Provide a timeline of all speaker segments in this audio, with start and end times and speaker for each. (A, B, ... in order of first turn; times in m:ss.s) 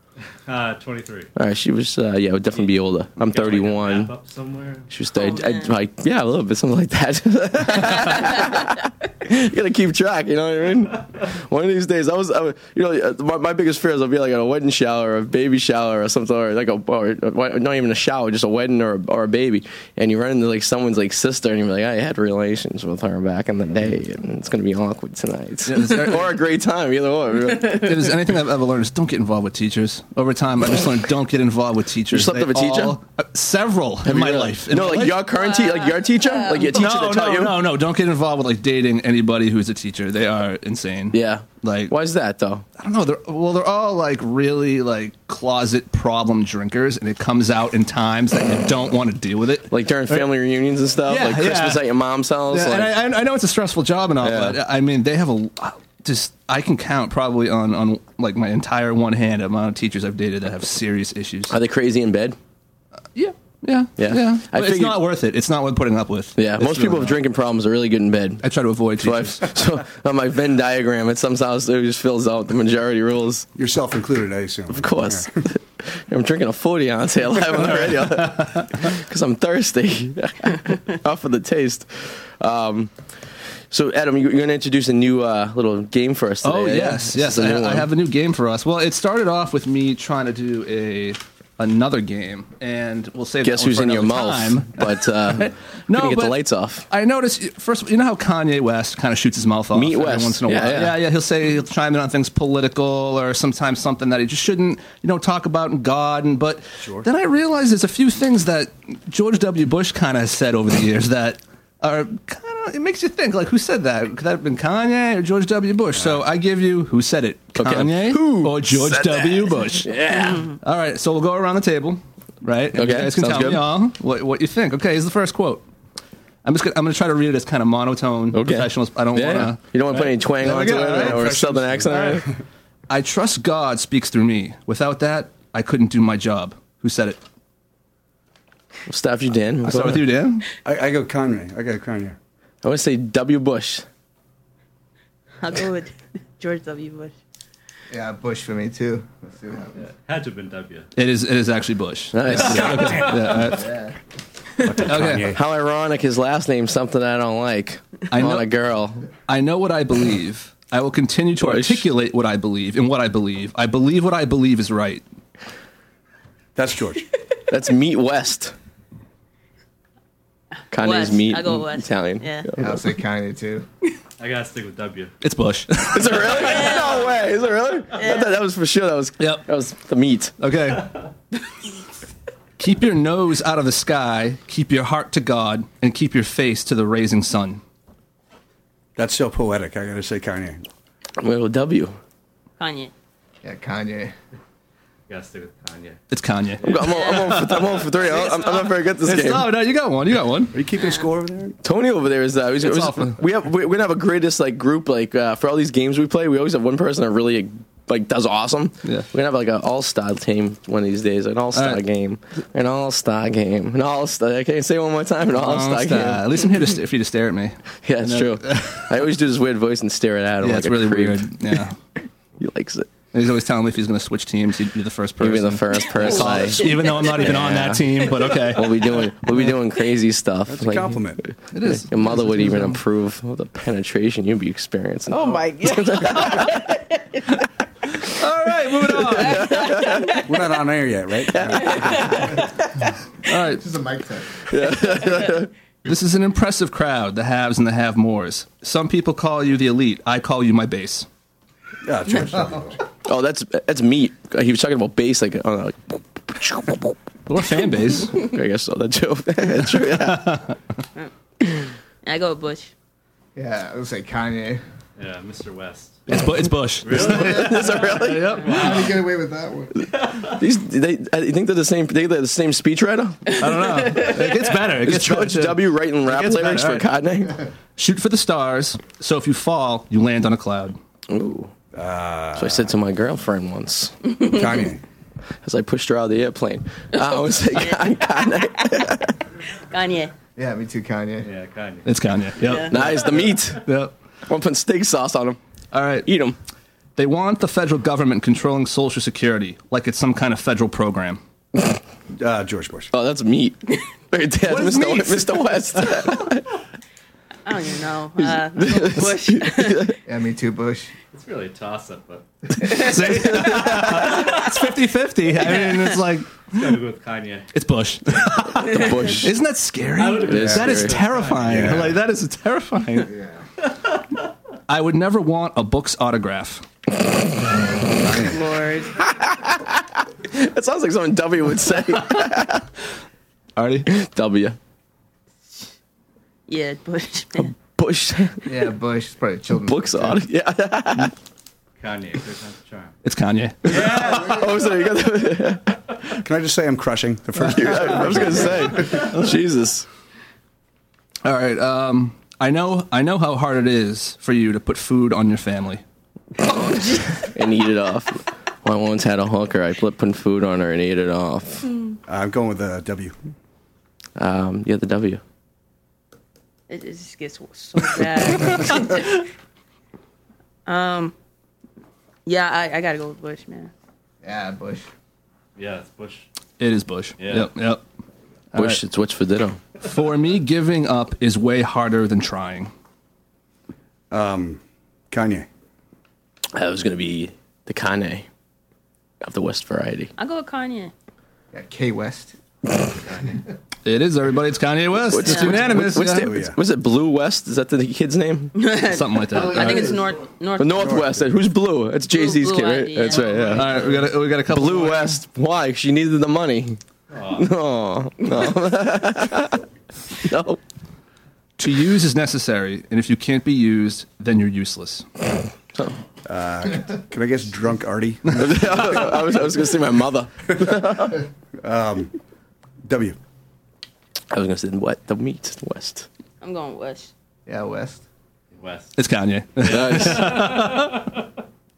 0:00.4-0:01.3 A
0:01.4-0:04.1 B
0:03.2-0:04.9 A
0:04.9-0:27.9 B
0:05.1-0:05.7 C
0:25.6-0:26.4 D
0:27.6-0:35.2 D
0:32.1-0:33.0 B
0:34.0-0:37.6 B
0:35.2-0:36.7 C
0:36.7-0:41.9 D
0:41.1-0:42.6 B
0:42.8-0:50.3 D
0:49.7-0:52.9 B
0:51.0-0:51.9 D
0:52.5-1:01.5 D
0:54.2-0:54.6 B
1:01.5-1:02.4 B
1:03.1-1:07.2 D
1:04.0-1:05.1 B
1:06.4-1:08.4 B
1:08.4-1:09.5 D
1:09.0-1:13.5 B
1:13.6-1:15.4 E
1:14.7-1:22.9 B
1:17.9-1:18.8 D
1:23.7-1:27.9 B
1:26.4-2:00.0 D
1:33.4-1:36.8 B
1:39.7-1:41.0 B
1:46.8-1:47.1 E
1:55.9-1:56.2 E
1:57.6-2:00.4 B
2:00.1-2:00.6 C
2:00.6-2:05.6 D
2:02.7-2:03.7 B
2:06.4-2:12.2 D
2:08.3-2:12.3 B
2:10.4-2:12.2 E
2:12.9-2:17.2 D
2:18.9-2:20.1 B
2:19.6-2:20.4 D
2:20.6-2:22.2 E
2:22.6-2:23.8 B
2:25.4-2:27.1 C
2:27.9-2:29.8 F
2:29.9-2:30.9 A
2:31.0-2:33.8 D
2:32.1-2:33.2 B
2:33.6-2:33.9 F
2:34.6-2:35.4 E
2:34.8-2:35.3 D
2:35.3-2:39.1 B
2:38.1-2:38.5 D
2:39.3-2:45.0 D
2:41.4-2:41.9 B
2:46.5-2:47.0 E
2:47.5-2:48.5 B
2:50.7-2:52.8 B
2:50.7-2:52.5 C
2:52.6-2:53.6 F
2:54.2-2:55.1 A
2:55.2-2:56.3 D
2:55.9-3:00.3 B
2:56.4-2:57.2 C
2:57.9-2:58.3 C
2:59.2-2:59.4 D
3:00.4-3:00.9 D
3:02.6-3:07.6 D
3:09.0-3:10.6 E
3:11.2-3:12.0 B
3:12.6-3:12.9 C
3:13.4-3:14.1 F
3:15.1-3:16.0 A
3:16.1-3:17.6 D
3:16.6-3:19.6 B
3:19.0-3:20.5 D
3:20.5-3:21.6 E
3:21.6-3:36.3 B
3:22.6-3:23.2 D
3:31.5-3:31.8 D
3:35.3-3:39.0 D
3:37.8-3:41.6 B
3:40.4-3:41.8 D
3:42.4-3:42.9 B
3:43.1-3:48.9 D
3:45.2-3:47.9 B
3:46.4-3:47.2 C
3:48.5-3:56.7 B
3:50.5-3:51.3 E
3:51.5-3:52.8 D
3:55.1-3:57.2 C
3:58.0-3:59.7 D
3:58.9-4:00.2 B
3:59.4-4:00.2 C
4:00.2-4:02.3 E
4:01.3-4:02.4 B
4:01.7-4:02.2 C
4:03.2-4:03.6 D
4:03.5-4:04.5 F
4:04.5-4:05.5 B
4:05.8-4:11.1 D
4:11.8-4:12.8 E
4:13.0-4:16.9 B
4:17.3-4:18.2 D
4:18.2-4:20.4 B
4:19.8-4:20.6 D
4:22.0-4:22.7 C
4:23.4-4:24.6 F
4:25.0-4:26.0 A
4:26.1-4:28.9 D
4:26.8-4:27.8 A
4:26.9-4:28.4 B
4:28.5-4:29.9 F
4:28.6-4:28.8 A
4:30.2-4:33.4 B
4:33.4-4:36.9 D
4:33.5-4:34.3 C
4:34.7-4:37.4 B
4:37.8-4:40.8 D
4:41.1-4:41.5 B
4:41.7-4:42.7 E
4:42.3-4:44.1 B
4:44.2-4:44.8 E
4:45.4-4:49.1 B
4:47.0-4:48.7 C
4:49.7-4:50.1 C
4:50.4-4:51.3 F
4:51.2-4:51.9 A
4:51.8-4:53.9 D
4:52.4-4:52.7 C
4:52.7-4:53.6 B
4:54.3-4:55.4 B
4:55.7-4:56.1 D
4:56.0-4:56.4 B
4:57.0-5:01.2 D
5:02.2-5:02.9 E
5:02.9-5:06.5 B
5:04.4-5:06.3 D
5:07.4-5:09.9 C
5:08.2-5:10.0 B
5:10.0-5:10.9 F
5:11.1-5:12.3 A
5:12.7-5:16.8 D
5:12.7-5:14.2 B
5:16.5-5:17.5 A
5:17.5-5:23.1 D
5:18.6-5:19.3 B
5:20.0-5:21.8 A
5:20.2-5:21.0 B
5:21.4-5:22.0 E
5:23.1-5:23.4 F
5:24.7-5:26.6 D
5:28.1-5:28.3 E
5:28.2-5:29.0 C
5:29.1-5:32.6 B
5:33.6-5:33.9 D
5:33.9-5:34.6 B
5:36.5-5:37.5 C
5:37.8-5:38.4 B
5:38.4-5:40.2 F
5:39.6-5:41.1 B
5:41.8-5:42.9 A
5:43.0-5:44.4 D
5:43.7-5:44.4 A
5:43.7-5:45.8 B
5:46.2-5:49.0 E
5:47.4-5:49.9 B
5:48.0-5:49.3 D
5:51.2-5:55.8 D
5:56.5-5:57.1 C
5:57.2-6:01.7 B
6:02.1-6:03.2 E
6:04.2-6:05.2 B
6:06.7-6:09.2 C
6:10.6-6:11.1 C
6:12.2-6:13.7 C
6:14.2-6:14.9 F
6:15.6-6:16.3 A
6:16.6-6:17.8 D
6:17.2-6:17.5 A
6:18.5-6:18.8 D
6:18.5-6:19.6 B
6:19.8-6:22.7 D
6:24.1-6:25.5 E
6:26.5-6:28.2 B
6:29.2-6:30.1 B
6:30.2-6:30.9 C
6:31.5-6:32.3 F
6:33.8-6:36.4 D
6:35.1-6:38.5 B
6:35.3-6:35.6 C
6:36.2-6:36.6 E
6:38.5-6:41.1 C
6:38.9-6:39.9 D
6:39.6-6:39.9 F
6:40.6-6:43.9 B
6:40.8-6:41.4 E
6:42.1-6:43.8 C
6:43.5-6:45.2 D
6:44.4-6:46.8 B
6:47.1-6:47.5 A
6:47.3-6:49.6 B
6:50.2-6:50.6 B
6:51.6-6:55.1 D
6:56.2-6:59.0 E
6:58.3-7:01.2 B
7:01.6-7:02.1 E
7:02.8-7:03.2 E
7:04.3-7:06.1 B
7:06.4-7:07.1 C
7:07.5-7:08.0 F
7:08.5-7:08.9 A
7:09.0-7:11.1 D
7:09.6-7:10.4 B
7:09.6-7:10.9 A